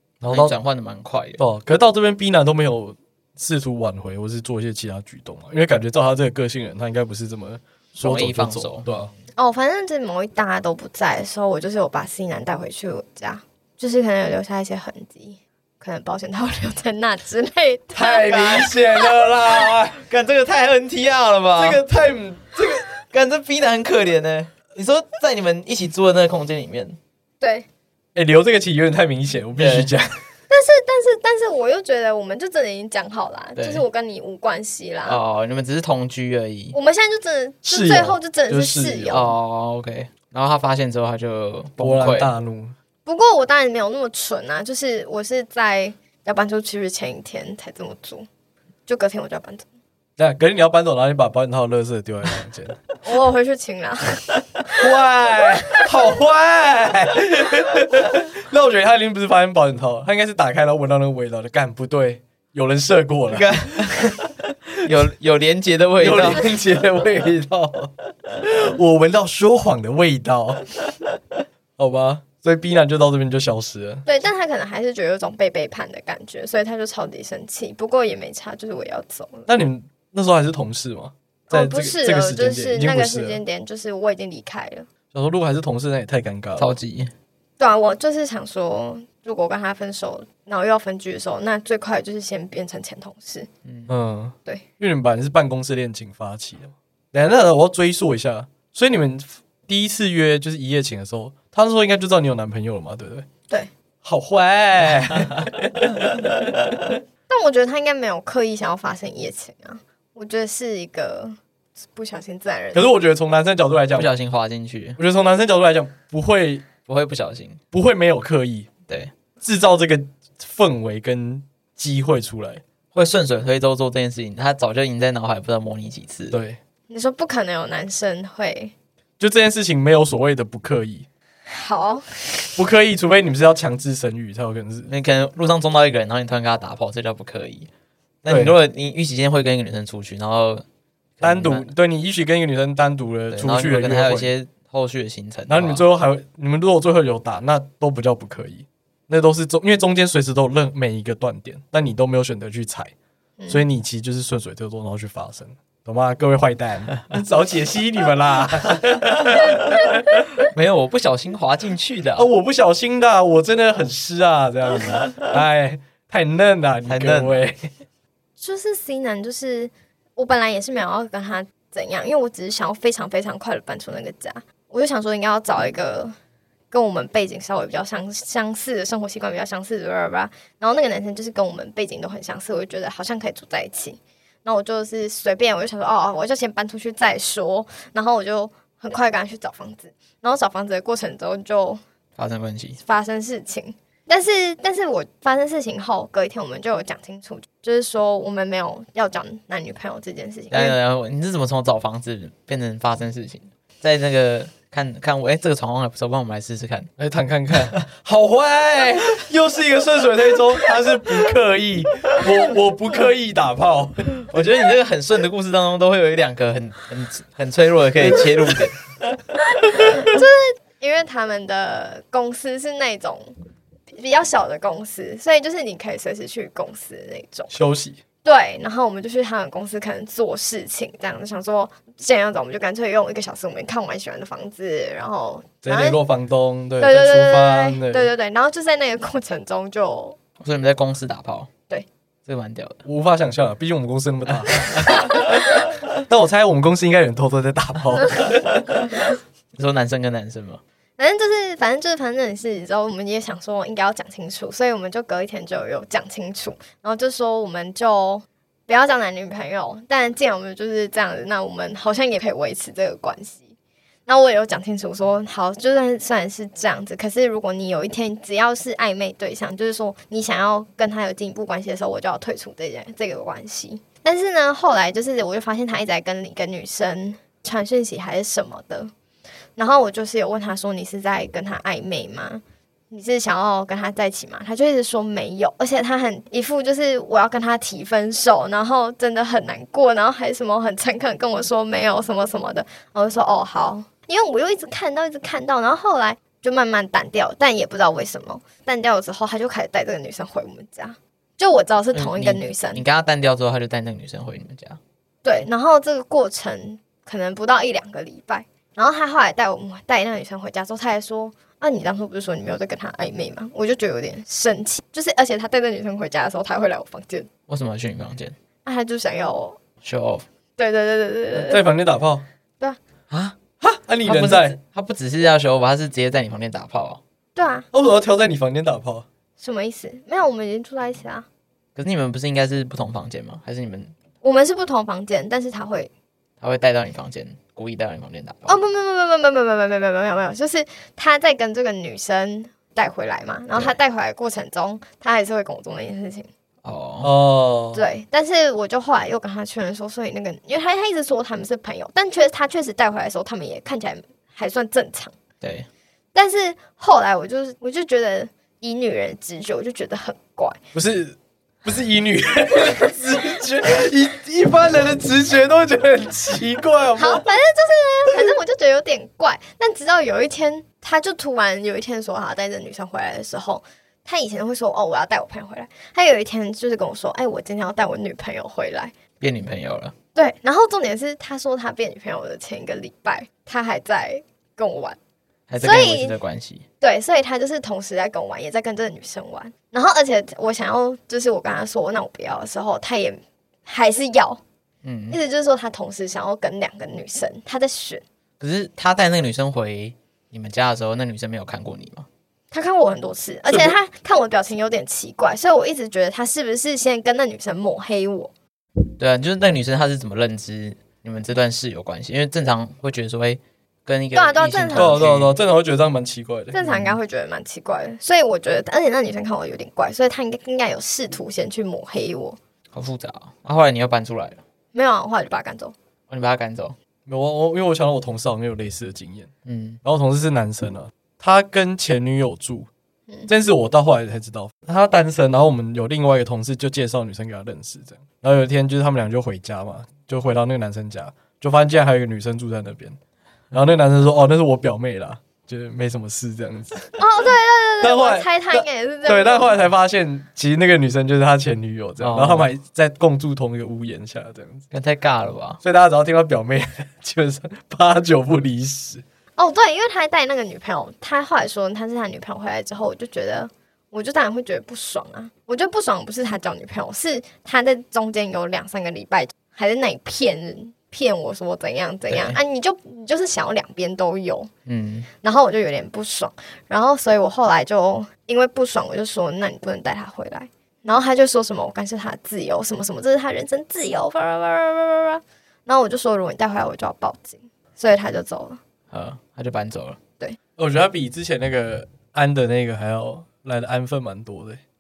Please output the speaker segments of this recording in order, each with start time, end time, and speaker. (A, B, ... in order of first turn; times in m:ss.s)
0:00.2-0:00.6 A
0:00.3-0:01.4 B
0:01.4-0:09.1 A
0:08.0-0:09.0 B
0:09.4-0:18.6 C
0:17.9-0:20.0 A
0:18.2-0:18.7 B
0:19.9-0:21.8 B
0:21.6-0:22.9 A
0:23.1-0:27.0 B
0:27.4-0:27.7 C
0:28.1-0:30.2 A
0:29.6-0:29.9 B
0:30.5-0:35.2 C
0:33.6-0:33.8 B
0:35.0-0:36.8 B
0:36.7-0:39.3 C
0:37.6-0:39.3 A
0:39.1-0:42.3 B
0:41.8-0:42.7 A
0:43.0-0:48.3 C
0:48.9-0:49.6 C
0:50.2-0:52.8 A
0:53.0-0:54.9 C
0:54.8-1:04.0 A
1:03.3-1:06.5 B
1:06.0-1:10.6 A
1:11.8-1:14.0 A
1:14.0-1:19.5 C
1:19.5-1:23.4 A
1:21.5-1:24.9 C
1:25.1-1:26.7 A
1:26.6-1:27.1 B
1:27.6-1:33.5 C
1:33.6-1:33.9 B
1:33.9-1:43.2 A
1:44.0-1:46.8 A
1:47.3-1:51.4 C
1:51.9-1:52.8 C
1:52.7-1:54.1 A
1:53.9-1:55.0 B
1:55.0-1:56.7 A
1:56.8-1:57.6 B
1:57.7-1:58.7 A
1:59.4-2:02.6 A
2:02.9-2:06.4 B
2:06.3-2:06.6 A
2:06.9-2:08.7 C
2:09.2-2:11.1 A
2:11.5-2:12.6 C
2:12.6-2:14.9 A
2:14.9-2:17.7 B
2:18.2-2:20.6 B
2:18.3-2:18.6 A
2:21.2-2:21.7 B
2:21.2-2:24.3 A
2:23.3-2:25.8 B
2:25.5-2:32.9 A
2:33.4-2:33.6 C
2:33.5-2:40.2 A
2:40.4-2:42.3 B
2:42.2-2:47.7 A
2:44.9-2:45.3 B
2:46.8-2:47.4 B
2:48.4-2:56.1 C
2:56.7-3:11.8 C
3:12.2-3:12.8 B
3:12.8-3:20.8 C
3:20.5-3:26.9 B
3:27.0-3:34.2 A
3:34.2-3:38.8 B
3:38.0-3:38.5 A
3:39.8-3:43.3 C
3:43.9-3:47.5 C
3:47.5-3:48.0 A
3:48.2-3:56.0 C
3:55.6-3:58.1 A
3:56.8-4:00.2 C
4:00.4-4:01.5 B
4:02.3-4:02.8 B
4:02.8-4:08.8 A
4:04.5-4:04.9 B
4:09.5-4:10.6 B
4:11.0-4:23.5 C
4:24.1-4:38.9 C
4:39.6-5:02.8 C
5:01.9-5:04.8 B
5:05.2-5:17.3 C
5:17.5-5:18.3 B
5:18.6-5:19.6 C
5:19.8-5:20.2 B
5:20.6-5:21.6 C
5:21.3-5:22.2 A
5:23.1-5:23.4 B
5:23.6-5:24.6 A
5:24.0-5:27.0 B
5:27.3-5:27.6 C
5:27.7-5:29.0 A
5:29.4-5:31.2 C
5:31.8-5:33.9 B
5:34.2-5:35.9 C
5:36.4-5:38.6 B
5:38.5-5:46.3 C
5:46.6-5:47.1 B
5:47.0-5:47.8 A
5:47.7-5:55.1 C
5:55.4-5:55.7 B
5:56.1-6:00.6 C
6:00.7-6:07.3 A
6:07.0-6:18.9 C
6:19.2-6:19.9 B
6:20.1-6:25.0 C
6:25.5-6:26.6 B
6:25.6-6:26.2 C
6:26.8-6:34.4 C
6:34.8-6:35.2 B
6:35.1-6:38.0 C
6:38.4-6:42.1 B
6:42.5-6:48.3 C
6:48.9-6:55.3 B
6:54.1-6:55.1 C
6:54.7-6:56.6 A
6:56.5-7:02.4 C
6:56.6-6:57.0 B
7:02.7-7:04.4 B
7:04.7-7:05.7 C
7:06.1-7:06.8 B
7:07.1-7:09.3 A
7:09.4-7:09.8 B
7:09.8-7:12.7 A
7:13.3-7:23.0 A
7:23.5-7:27.0 A
7:27.0-7:29.5 C
7:27.8-7:34.6 A
7:32.0-7:32.5 B
7:34.7-7:35.6 B
7:35.6-7:39.0 A
7:39.4-7:54.5 C
7:54.6-7:55.1 B
7:55.2-8:08.6 C
8:08.9-8:10.0 B
8:10.6-8:14.6 A